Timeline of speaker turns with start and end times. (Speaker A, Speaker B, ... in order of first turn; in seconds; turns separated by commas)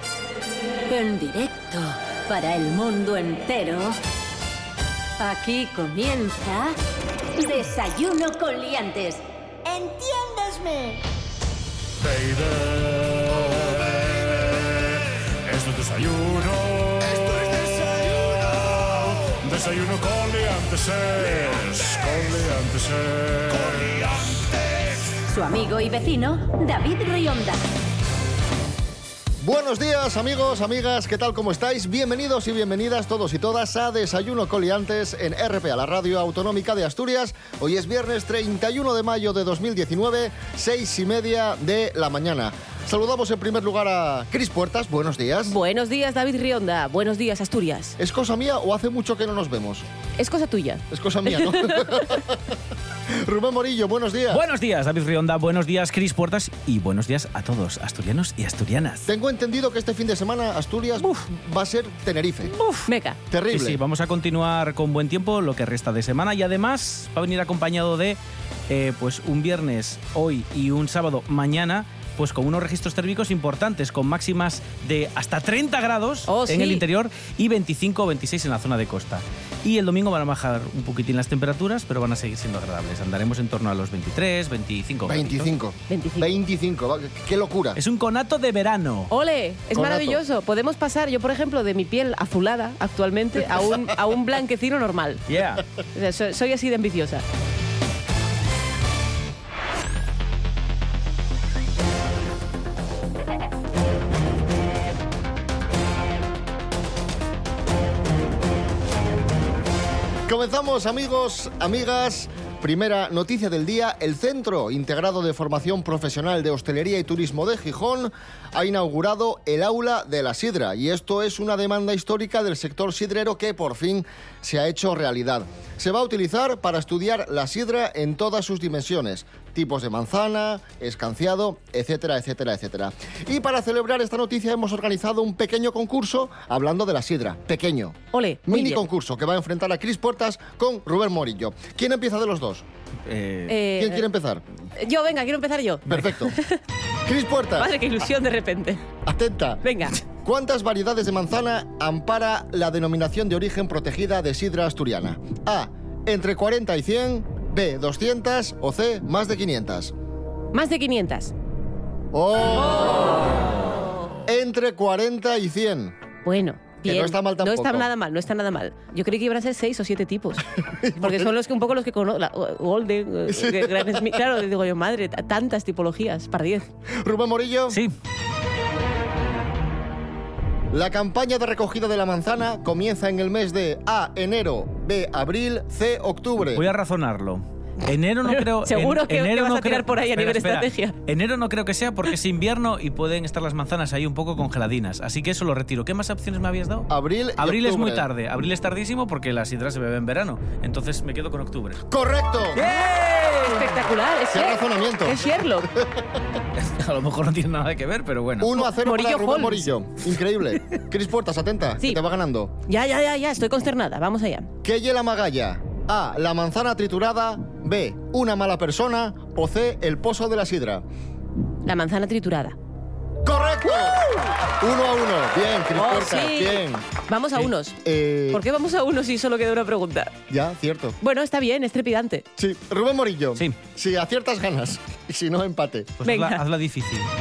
Speaker A: 0.9-4.0, Speaker A: 5.2-6.8, Speaker A: 7.4-11.0, Speaker B: 12.0-24.4, Speaker A: 25.3-27.6, Speaker C: 29.4-45.5, Speaker D: 45.5-48.0, Speaker C: 48.0-49.9, Speaker D: 50.2-52.0, Speaker C: 50.9-52.6, Speaker C: 53.1-54.4, Speaker E: 54.3-59.1, Speaker C: 59.1-62.5, Speaker E: 61.0-61.3, Speaker E: 62.5-62.9, Speaker D: 62.9-63.2, Speaker C: 63.3-63.8, Speaker E: 63.5-68.2, Speaker E: 68.7-85.5, Speaker D: 76.3-76.8, Speaker C: 85.1-87.8, Speaker D: 85.9-86.4, Speaker E: 87.8-89.1, Speaker D: 89.1-95.2, Speaker C: 89.7-90.2, Speaker E: 95.3-95.6, Speaker D: 95.9-97.2, Speaker C: 110.3-142.7, Speaker D: 138.1-138.8, Speaker E: 143.1-143.6, Speaker D: 143.5-144.1, Speaker C: 143.8-144.4, Speaker D: 144.8-146.6, Speaker C: 145.9-146.3, Speaker C: 147.1-147.7, Speaker D: 147.6-148.8, Speaker C: 149.1-159.9, Speaker D: 149.6-150.0, Speaker D: 160.5-161.3, Speaker C: 162.1-163.4, Speaker C: 164.2-166.0, Speaker D: 166.2-170.4, Speaker C: 166.8-167.9, Speaker C: 170.7-171.3, Speaker D: 171.0-176.7, Speaker C: 173.3-174.3, Speaker C: 176.9-177.8, Speaker C: 180.7-186.7, Speaker E: 186.6-201.8, Speaker D: 188.3-191.0, Speaker C: 196.9-198.1, Speaker C: 201.9-202.6, Speaker E: 202.6-203.8, Speaker D: 202.6-205.7, Speaker C: 204.3-206.2, Speaker E: 206.6-208.6, Speaker C: 208.4-212.5, Speaker D: 208.6-209.7, Speaker D: 212.7-214.5, Speaker C: 214.6-220.8, Speaker D: 221.7-222.6, Speaker C: 223.2-226.9, Speaker D: 225.8-227.8, Speaker C: 227.8-228.4, Speaker D: 228.3-230.2, Speaker C: 230.3-231.0, Speaker D: 231.0-232.2, Speaker C: 232.4-235.9, Speaker E: 236.0-237.1, Speaker D: 236.0-236.4